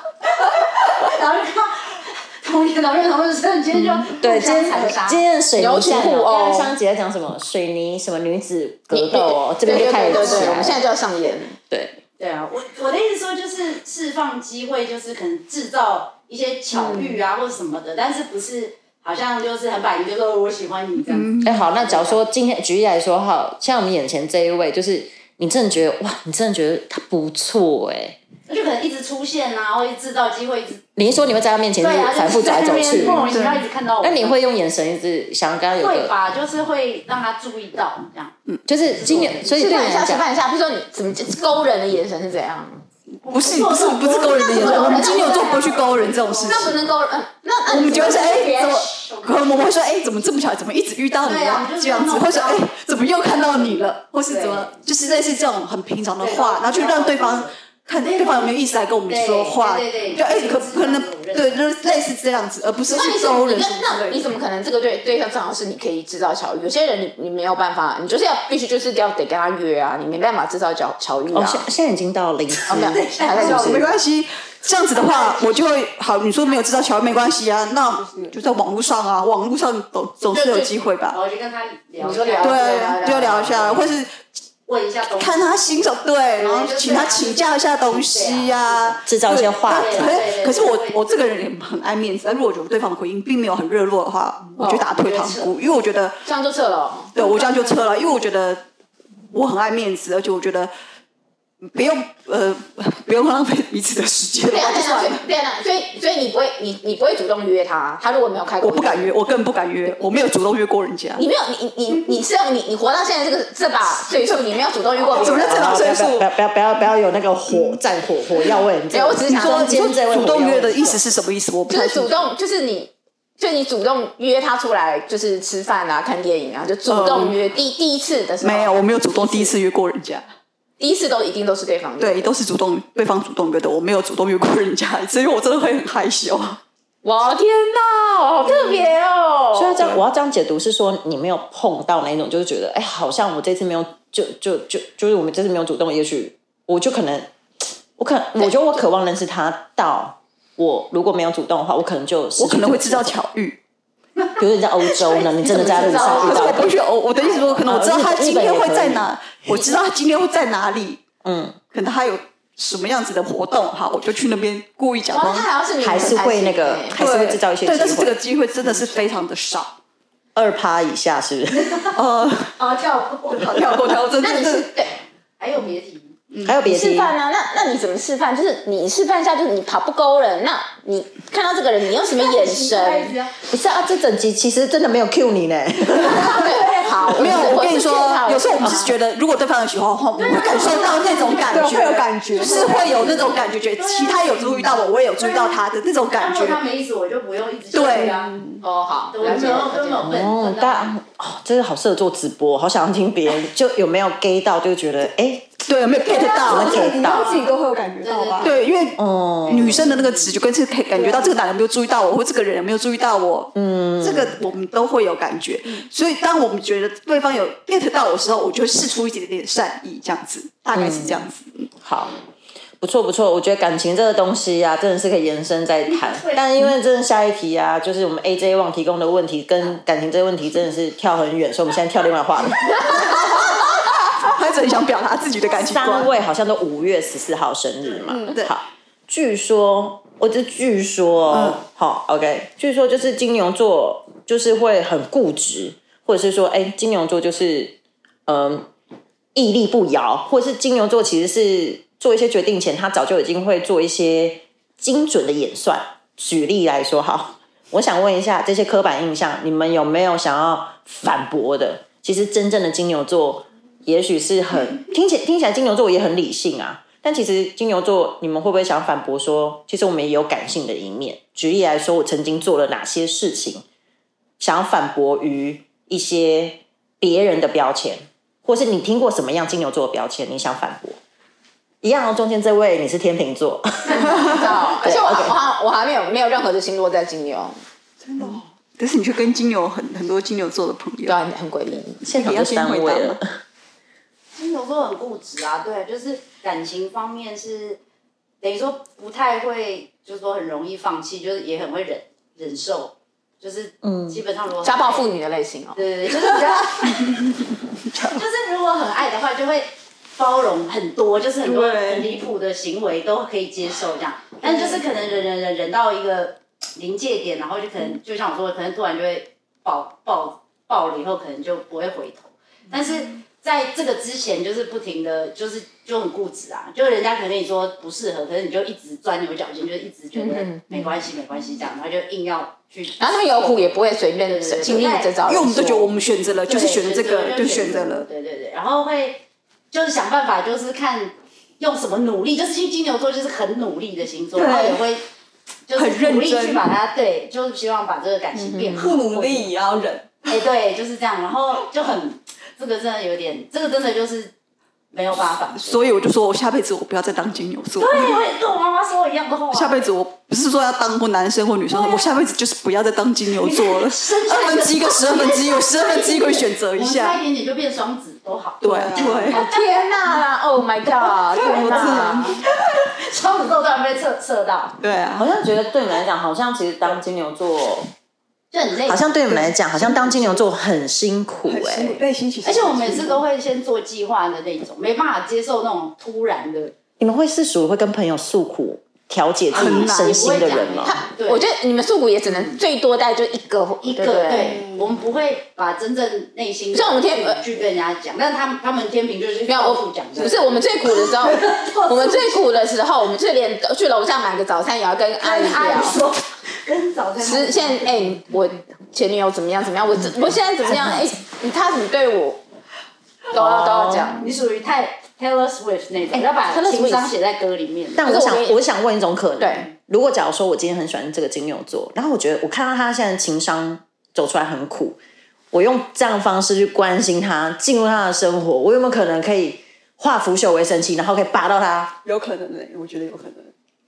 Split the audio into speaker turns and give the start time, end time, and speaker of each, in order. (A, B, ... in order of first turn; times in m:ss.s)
0:00.8-0:05.2 A
0:04.1-0:10.8 B
0:05.6-0:06.7 C
0:08.9-0:11.6 C
0:10.2-0:10.6 A
0:11.7-0:12.0 B
0:12.2-0:22.2 A
0:16.7-0:17.2 C
0:21.0-0:21.6 D
0:21.4-0:28.2 B
0:28.5-0:30.9 A
0:31.0-0:33.4 B
0:31.8-0:34.4 A
0:32.4-0:33.3 C
0:33.3-0:33.6 D
0:34.0-0:36.1 B
0:35.7-0:39.6 A
0:38.7-0:40.2 B
0:39.6-0:42.8 C
0:43.2-0:46.8 A
0:43.3-0:46.8 D
0:44.4-0:45.8 C
0:46.4-0:48.9 C
0:47.7-1:04.3 D
0:48.0-0:49.5 A
0:51.2-0:52.7 A
0:54.2-0:54.7 A
0:56.2-1:01.7 A
1:02.9-1:11.6 C
1:11.3-1:13.8 B
1:12.7-1:13.8 C
1:13.3-1:21.2 D
1:13.4-1:14.0 E
1:15.0-1:15.4 A
1:17.8-1:18.4 E
1:20.3-1:20.8 C
1:21.1-1:23.9 A
1:22.0-1:23.7 C
1:22.4-1:24.2 D
1:24.7-1:31.1 A
1:25.2-1:36.2 D
1:29.1-1:30.2 B
1:34.6-1:34.9 C
1:34.9-1:35.5 A
1:36.2-1:37.2 C
1:37.1-1:38.7 D
1:39.3-1:40.7 D
1:41.6-1:45.2 D
1:44.5-1:49.2 C
1:48.6-1:51.2 D
1:51.2-1:55.6 C
1:55.1-1:56.2 D
1:55.5-2:01.0 B
1:58.9-1:59.8 C
1:59.3-2:02.2 D
2:01.7-2:09.5 C
2:06.9-2:07.4 D
2:08.4-2:10.3 D
2:10.8-2:12.3 C
2:12.0-2:16.6 D
2:17.0-2:20.0 C
2:19.5-2:27.3 B
2:28.0-2:33.1 B
2:32.4-2:33.6 D
2:34.4-2:36.7 B
2:35.4-2:36.7 C
2:35.6-2:41.0 D
2:37.6-2:39.1 B
2:41.2-2:41.6 B
2:41.7-2:45.5 D
2:45.1-2:47.0 C
2:45.8-2:48.2 B
2:47.0-2:49.8 D
2:50.4-2:51.8 B
2:51.9-2:52.6 D
2:52.6-2:53.5 A
2:53.3-2:54.7 D
2:53.7-2:54.2 E
2:54.2-2:55.0 C
2:55.4-2:56.2 A
2:56.3-2:56.6 D
2:56.4-2:57.1 B
2:56.6-3:03.1 C
3:02.2-3:03.3 A
3:03.5-3:06.5 B
3:06.0-3:08.9 C
3:07.1-3:16.6 D
3:10.2-3:15.6 A
3:11.4-3:13.3 E
3:16.1-3:18.3 A
3:17.7-3:18.1 D
3:18.1-3:18.6 E
3:18.6-3:20.0 C
3:19.1-3:21.0 A
3:20.0-3:25.6 B
3:25.7-3:26.9 D
3:26.0-3:28.6 E
3:26.4-3:27.3 B
3:26.8-3:28.5 A
3:28.4-3:41.7 D
3:29.0-3:29.9 B
3:29.6-3:30.3 A
3:30.9-3:31.4 E
3:33.6-3:34.4 B
3:40.7-3:41.3 B
3:41.8-3:42.1 B
3:42.8-3:53.1 B
3:45.9-3:46.4 A
3:53.1-3:53.5 D
3:54.2-3:56.1 D
3:55.7-4:08.7 B
4:01.3-4:01.6 D
4:09.3-4:33.6 B
4:34.4-4:41.0 B
4:41.8-4:45.4 B
4:43.9-4:47.6 C
4:48.0-4:48.5 E
4:48.8-4:51.2 D
4:51.1-4:52.0 C
4:52.0-4:53.2 D
4:52.0-4:53.2 B
4:54.4-4:57.8 A
4:58.4-5:05.1 A
5:03.8-5:04.2 B
5:04.6-5:05.8 C
5:05.8-5:07.2 A
5:07.9-5:08.2 D
5:08.0-5:35.3 A
5:11.4-5:12.1 D
5:30.2-5:30.7 C
5:33.0-5:35.9 C
5:34.6-5:38.0 D
5:36.4-5:45.0 A
5:44.4-5:44.8 E
5:45.7-5:49.5 A
5:45.7-5:46.6 D
5:48.4-5:48.9 C
5:48.7-5:50.1 E
5:50.3-5:54.3 A
5:54.9-5:55.8 A
5:55.5-5:58.2 D
5:57.8-5:59.9 A
5:59.5-6:07.2 D
6:01.7-6:02.1 A
6:03.3-6:09.7 A
6:08.6-6:09.4 D
6:08.7-6:09.3 E
6:09.3-6:12.4 C
6:11.3-6:12.4 D
6:11.4-6:12.1 A
6:13.0-6:14.8 A
6:14.8-6:15.3 D
6:15.2-6:17.9 B
6:18.5-6:20.4 A
6:18.8-6:22.0 B
6:21.5-6:23.2 E
6:22.4-6:26.7 A
6:27.0-6:31.0 B
6:29.5-6:30.4 D
6:29.5-6:31.5 A
6:30.9-6:34.6 C
6:33.8-6:42.4 A
6:34.4-6:34.8 E
6:36.7-6:37.4 C
6:39.5-6:46.0 C
6:45.2-6:48.1 A
6:47.2-6:52.4 C
6:53.3-6:54.2 C
6:53.4-6:54.1 B
6:53.6-6:58.0 A
6:56.1-6:57.1 B
6:58.0-7:05.0 B
6:58.0-6:58.6 C
6:59.4-6:59.6 C
6:59.4-6:59.7 A
7:05.5-7:12.0 B
7:12.0-7:13.5 E